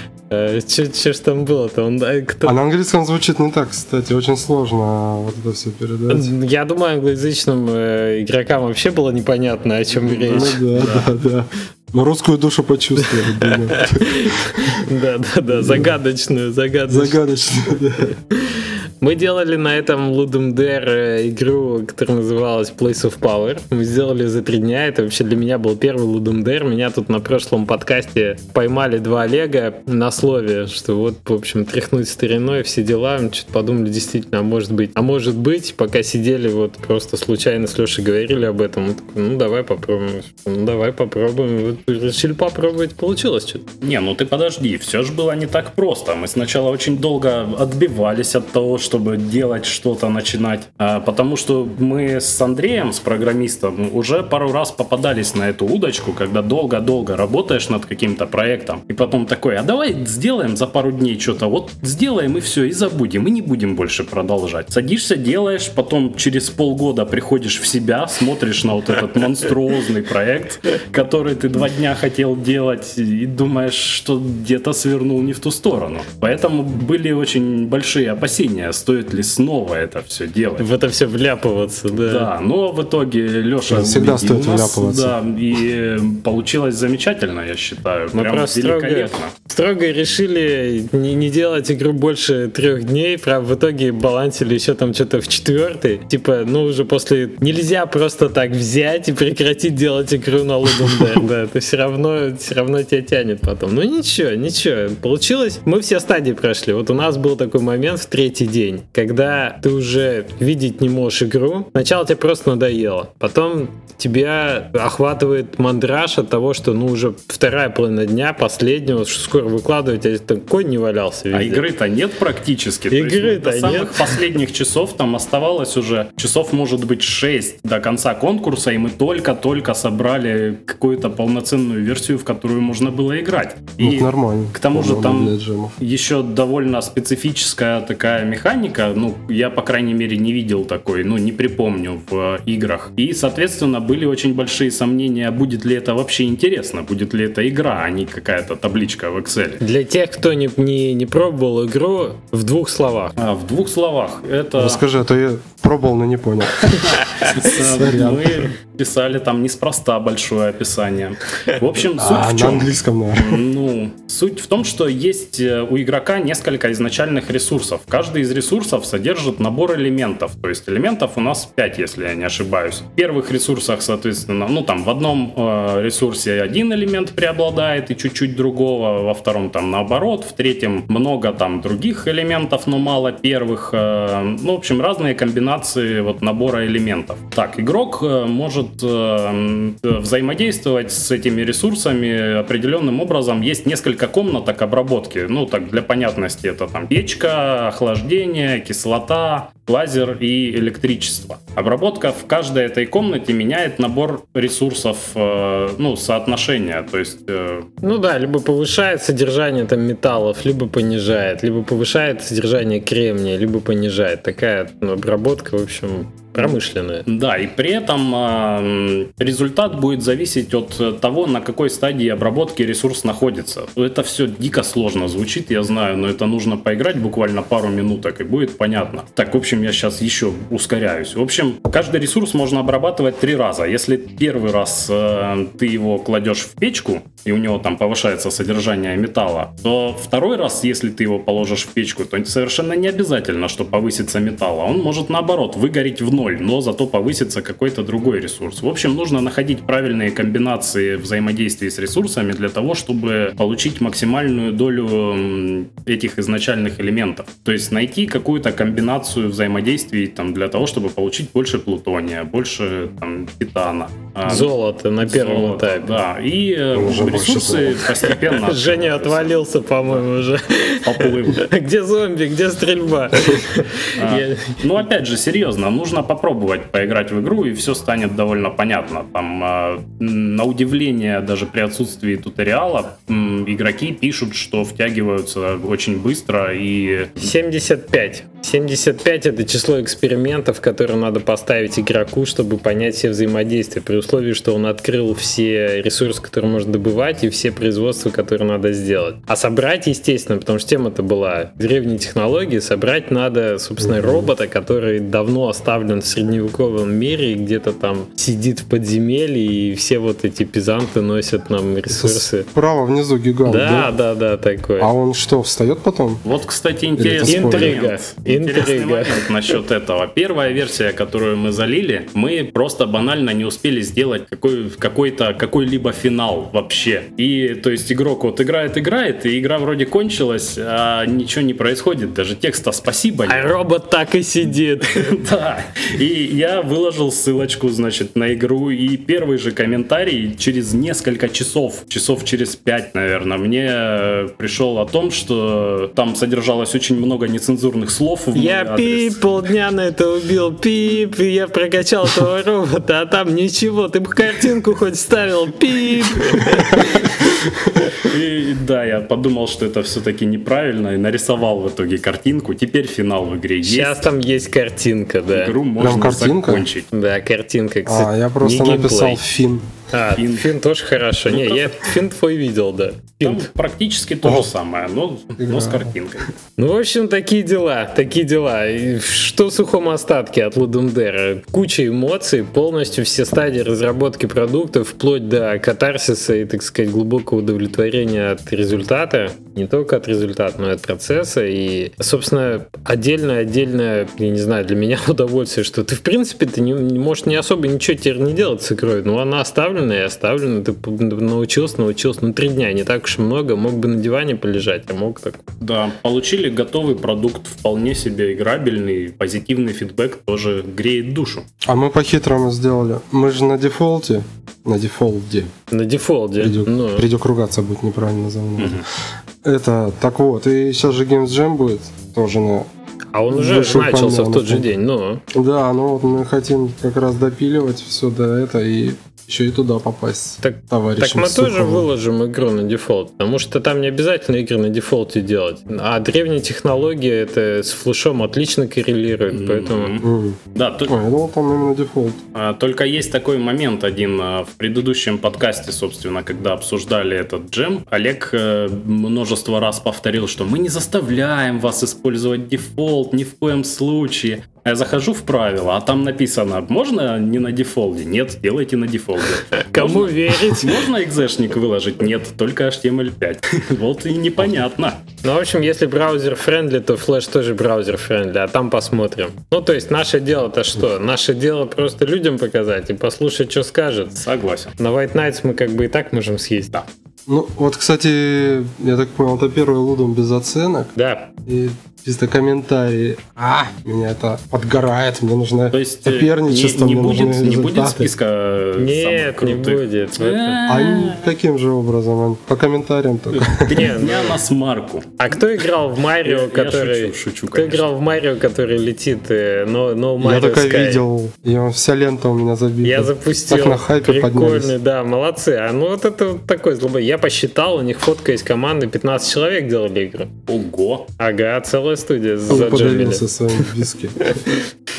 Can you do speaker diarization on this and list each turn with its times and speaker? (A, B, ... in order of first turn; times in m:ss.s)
0:00.3-0:02.6 A
0:02.4-0:06.3 B
0:06.1-0:10.6 A
0:10.0-0:11.1 C
0:10.2-0:14.1 B
0:13.3-0:17.2 A
0:15.5-0:15.9 B
0:16.9-0:18.1 B
0:18.3-0:43.6 A
0:43.8-1:20.7 C
1:20.6-1:22.3 A
1:22.0-1:29.3 C
1:23.7-1:25.2 B
1:28.1-2:01.6 A
2:01.3-2:29.6 C
2:02.9-2:04.2 A
2:13.8-2:15.8 B
2:29.6-2:33.1 A
2:33.2-2:34.8 C
2:34.6-2:36.9 B
2:36.7-3:27.7 C
2:37.5-2:38.5 B
2:42.0-2:43.4 B
3:27.8-3:37.0 A
3:37.1-4:30.0 C
4:24.2-4:26.0 A
4:26.7-4:27.9 B
4:28.1-4:34.6 A
4:30.8-4:31.4 C
4:34.0-4:47.3 C
4:47.2-5:12.5 A
5:03.8-5:04.3 B
5:11.9-5:13.9 B
5:13.4-5:14.9 A
5:14.8-5:16.2 B
5:16.2-5:33.5 C
5:17.0-5:17.8 B
5:17.2-5:19.5 A
5:33.2-5:35.2 A
5:34.9-5:49.2 C
5:48.3-5:57.2 A
5:57.9-6:04.1 C
6:03.6-6:05.5 A
6:05.3-6:06.9 C
6:05.8-6:06.6 B
6:06.9-6:09.2 A
6:07.8-6:09.7 B
6:09.9-6:13.5 A
6:10.1-6:10.5 C
6:11.3-6:11.9 C
6:13.2-6:16.3 C
6:15.4-6:15.9 B
6:16.6-6:45.4 A
6:45.6-6:51.4 C
6:51.6-6:55.5 B
6:55.7-6:57.1 A
6:56.4-6:58.8 B
6:58.6-6:58.8 C
6:59.4-7:02.7 B
7:03.1-7:05.2 A
7:03.3-7:04.7 B
7:05.3-7:11.9 B
7:10.4-7:19.9 A
7:19.3-7:21.0 C
7:20.0-7:22.2 B
7:22.3-7:45.0 C
7:39.5-7:40.8 A
7:45.2-7:54.2 A
7:54.1-7:54.7 C
7:54.8-7:56.7 A
7:57.3-8:00.9 B
8:00.9-8:01.3 A
8:01.4-8:08.1 B
8:05.7-8:11.3 C
8:08.8-8:10.6 A
8:10.6-8:13.9 B
8:13.4-8:15.1 C
8:13.7-8:14.3 A
8:15.2-8:21.0 A
8:16.2-8:17.9 C
8:20.2-8:24.7 B
8:22.8-8:30.3 A
8:30.5-8:31.1 C
8:31.2-8:33.3 A
8:32.5-8:34.4 B
8:34.3-8:34.6 A